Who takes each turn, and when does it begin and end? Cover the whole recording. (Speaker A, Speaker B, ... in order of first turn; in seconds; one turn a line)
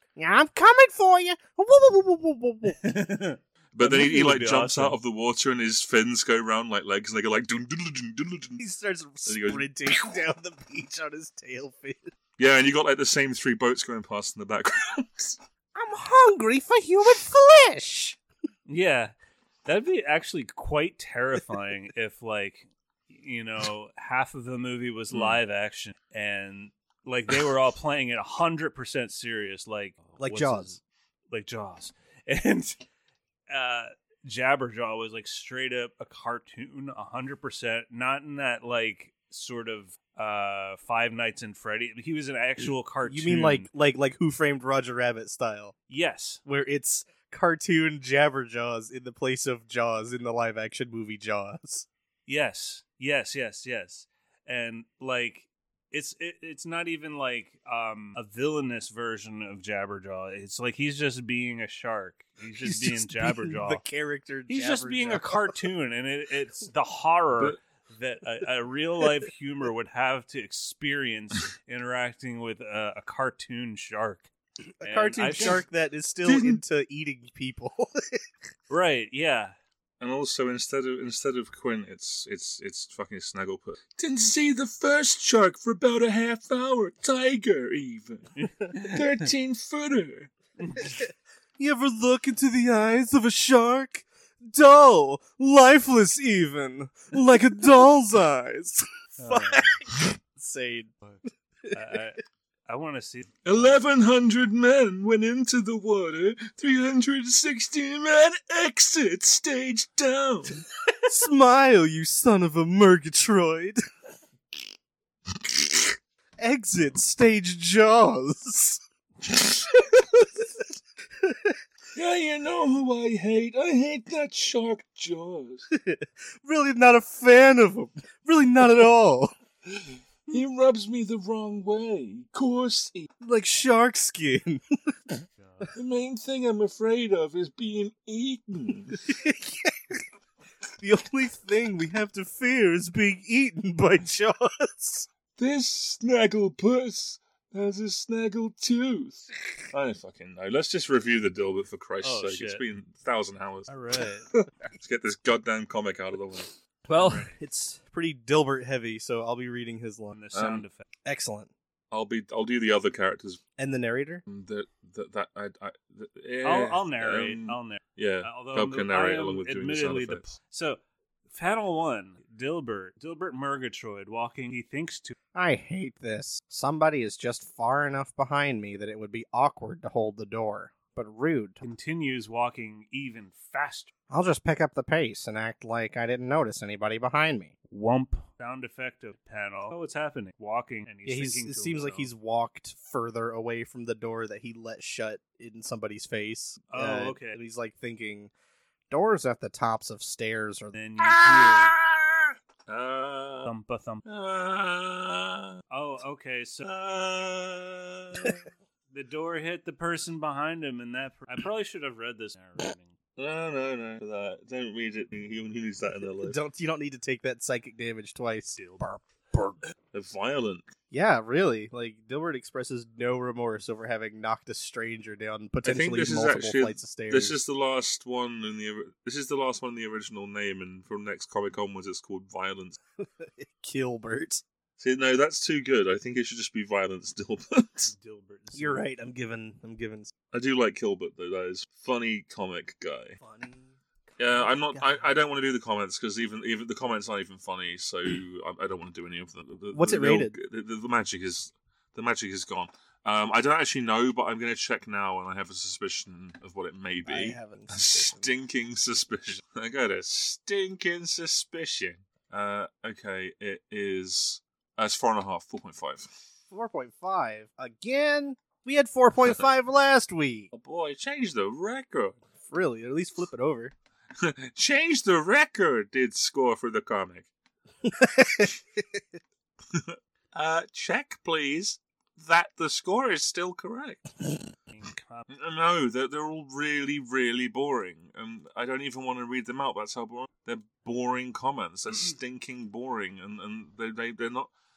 Speaker A: 0.2-3.0
Speaker B: 2.8-5.0
Speaker C: 3.7-8.6
Speaker A: 8.6-12.1
Speaker C: 9.3-9.7
Speaker C: 12.4-15.4
Speaker A: 15.8-18.2
Speaker B: 18.7-19.1
Speaker B: 19.6-30.8
Speaker C: 25.1-25.4
Speaker A: 30.2-30.7
Speaker B: 31.3-32.8
Speaker B: 33.5-43.7
Speaker A: 43.0-45.7
Speaker B: 45.9-46.4
Speaker A: 46.5-51.9
Speaker B: 52.3-63.8
Speaker A: 62.6-65.7
Speaker B: 64.5-74.3
Speaker B: 74.8-75.6
Speaker A: 74.8-78.3
Speaker C: 76.2-76.6
Speaker B: 78.7-79.5
Speaker C: 80.0-90.3
Speaker B: 88.4-89.3
Speaker B: 90.6-90.9
Speaker A: 90.8-101.1
Speaker B: 99.2-99.8
Speaker A: 101.6-102.0
Speaker B: 101.7-103.8
Speaker C: 103.5-110.7
Speaker A: 111.0-113.8
Speaker A: 116.4-118.8
Speaker A: 119.9-120.2
Speaker A: 121.2-121.6
Speaker C: 122.0-125.7
Speaker A: 125.7-129.3
Speaker C: 129.8-133.1
Speaker A: 133.2-134.9
Speaker B: 135.4-135.7
Speaker C: 135.7-139.1
Speaker A: 139.0-140.0
Speaker A: 140.8-145.1
Speaker C: 145.4-153.7
Speaker B: 152.0-152.6
Speaker B: 153.7-154.3
Speaker C: 154.3-157.2
Speaker A: 156.9-160.2
Speaker B: 160.1-160.8
Speaker C: 160.3-160.7
Speaker A: 161.1-161.5
Speaker C: 161.9-163.4
Speaker A: 163.6-164.2
Speaker C: 164.3-170.3
Speaker B: 166.4-170.8
Speaker B: 171.3-175.1
Speaker A: 175.3-181.6
Speaker B: 181.6-183.9
Speaker A: 184.1-187.5
Speaker B: 187.7-192.1
Speaker A: 191.1-198.3
Speaker B: 196.7-197.4
Speaker A: 198.9-200.8
Speaker B: 200.7-201.7
Speaker C: 201.0-203.5
Speaker B: 203.4-204.0
Speaker C: 204.1-205.6
Speaker B: 205.7-206.7
Speaker C: 206.6-208.4
Speaker B: 208.9-213.0
Speaker C: 213.2-216.4
Speaker A: 216.2-219.6
Speaker B: 218.6-218.9
Speaker C: 219.9-220.7
Speaker A: 220.9-227.4
Speaker C: 225.6-232.8
Speaker A: 233.0-234.4
Speaker C: 234.8-237.9
Speaker B: 237.9-238.8
Speaker A: 238.5-240.1
Speaker C: 240.3-243.2
Speaker A: 243.2-245.0
Speaker C: 244.2-266.1
Speaker A: 249.7-250.4
Speaker A: 257.1-258.3
Speaker A: 266.5-270.5
Speaker C: 270.5-272.2
Speaker A: 272.4-273.7
Speaker C: 274.2-277.3
Speaker A: 277.8-279.0
Speaker C: 279.7-284.1
Speaker B: 284.7-285.3
Speaker C: 285.3-294.5